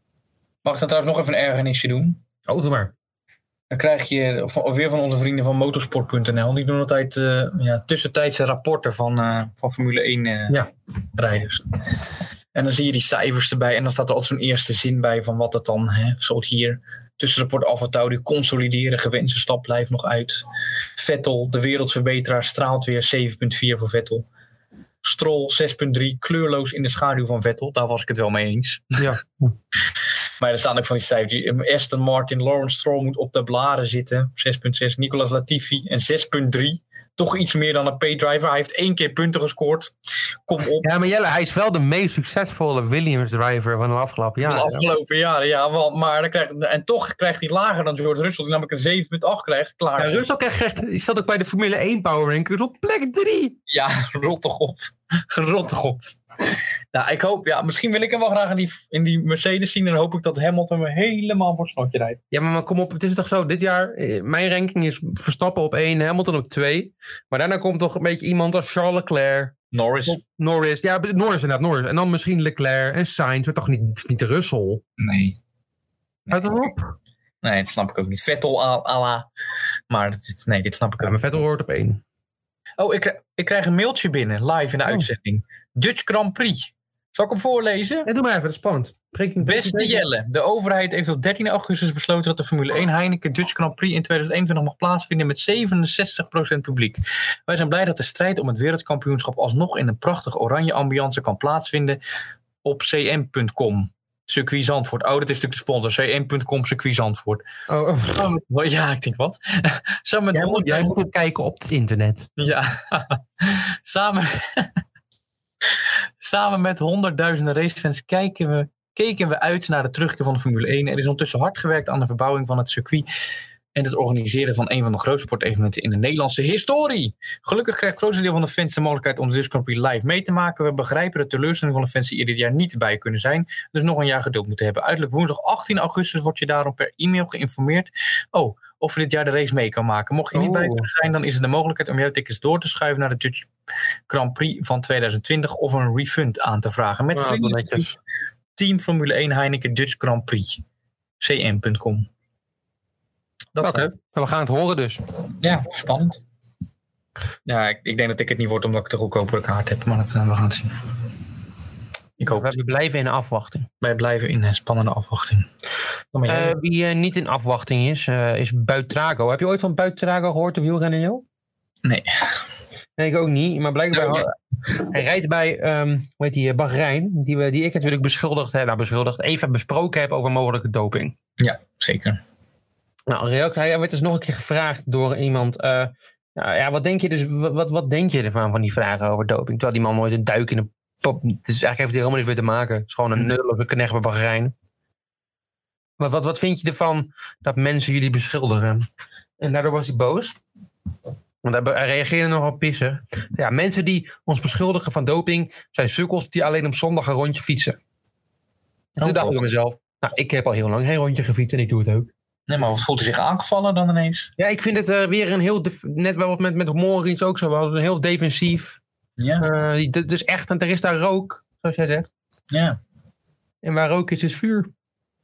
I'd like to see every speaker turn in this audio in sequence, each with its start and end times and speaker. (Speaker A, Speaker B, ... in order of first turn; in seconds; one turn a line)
Speaker A: 0.6-2.2
Speaker B: 2.5-2.9
Speaker A: 3.7-10.6
Speaker A: 11.2-11.6
Speaker A: 12.5-24.2
Speaker A: 25.0-29.0
Speaker B: 29.0-29.5
Speaker A: 30.4-39.9
Speaker A: 40.5-40.9
Speaker B: 40.8-44.9
Speaker A: 44.4-50.2
Speaker B: 50.0-53.5
Speaker A: 53.7-56.0
Speaker A: 56.9-62.2
Speaker B: 62.3-69.5
Speaker A: 69.7-70.2
Speaker B: 70.1-74.8
Speaker A: 75.0-75.4
Speaker A: 76.2-76.7
Speaker B: 76.3-76.9
Speaker A: 77.4-79.3
Speaker A: 79.9-81.2
Speaker B: 81.0-82.0
Speaker A: 82.8-88.1
Speaker B: 88.0-90.0
Speaker A: 89.4-102.0
Speaker A: 102.6-107.4
Speaker B: 107.7-108.3
Speaker A: 108.1-111.0
Speaker B: 110.3-112.3
Speaker A: 112.4-114.7
Speaker A: 116.2-123.1
Speaker A: 123.7-143.5
Speaker B: 140.3-140.9
Speaker A: 144.1-147.9
Speaker B: 147.1-147.9
Speaker A: 148.6-150.6
Speaker A: 151.2-152.1
Speaker A: 153.5-153.9
Speaker B: 153.6-155.0
Speaker A: 155.4-156.2
Speaker A: 157.4-160.7
Speaker A: 162.2-162.6
Speaker B: 162.2-163.7
Speaker A: 163.8-165.5
Speaker A: 166.1-166.5
Speaker B: 166.2-171.2
Speaker A: 171.8-172.1
Speaker B: 173.0-181.1
Speaker A: 173.9-174.2
Speaker A: 181.4-182.2
Speaker B: 183.1-194.5
Speaker B: 196.0-198.8
Speaker B: 199.4-200.4
Speaker B: 201.4-207.8
Speaker A: 208.9-209.4
Speaker B: 209.0-212.1
Speaker A: 212.5-214.3
Speaker B: 214.4-218.8
Speaker A: 219.2-219.4
Speaker B: 219.4-222.1
Speaker A: 222.5-222.8
Speaker B: 223.6-224.7